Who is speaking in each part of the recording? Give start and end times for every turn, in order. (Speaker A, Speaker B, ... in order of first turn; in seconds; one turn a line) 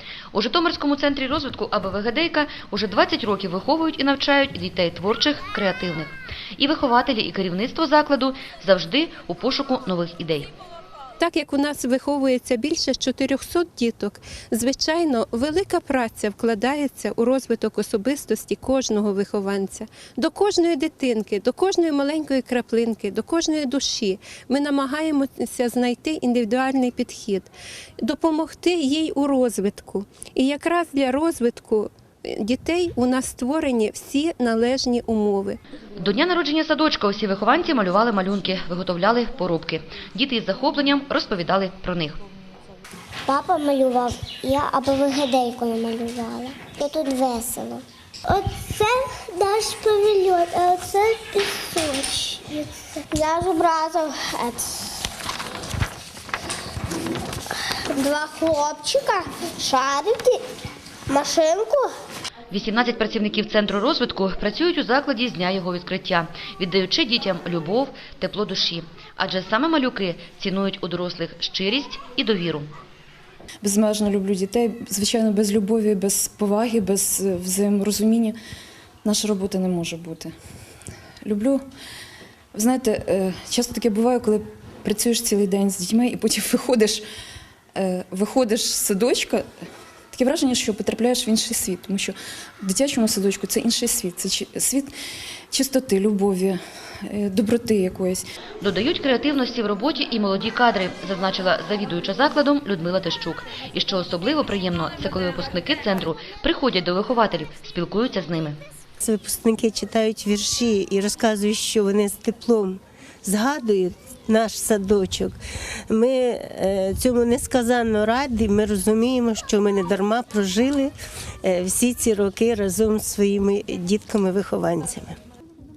Speaker A: 0.3-10.5
Speaker B: 11.2-35.6
Speaker A: 36.0-42.2
Speaker C: 43.3-55.0
Speaker C: 57.7-60.4
Speaker C: 61.1-61.9
Speaker A: 62.5-72.7
Speaker D: 73.6-78.4
Speaker D: 79.0-80.3
Speaker D: 81.2-81.6
Speaker D: 82.5-87.0
Speaker D: 87.8-89.5
Speaker D: 90.1-94.9
Speaker D: 95.5-98.2
Speaker A: 98.6-108.6
Speaker E: 109.0-115.4
Speaker E: 115.9-120.9
Speaker E: 121.4-125.2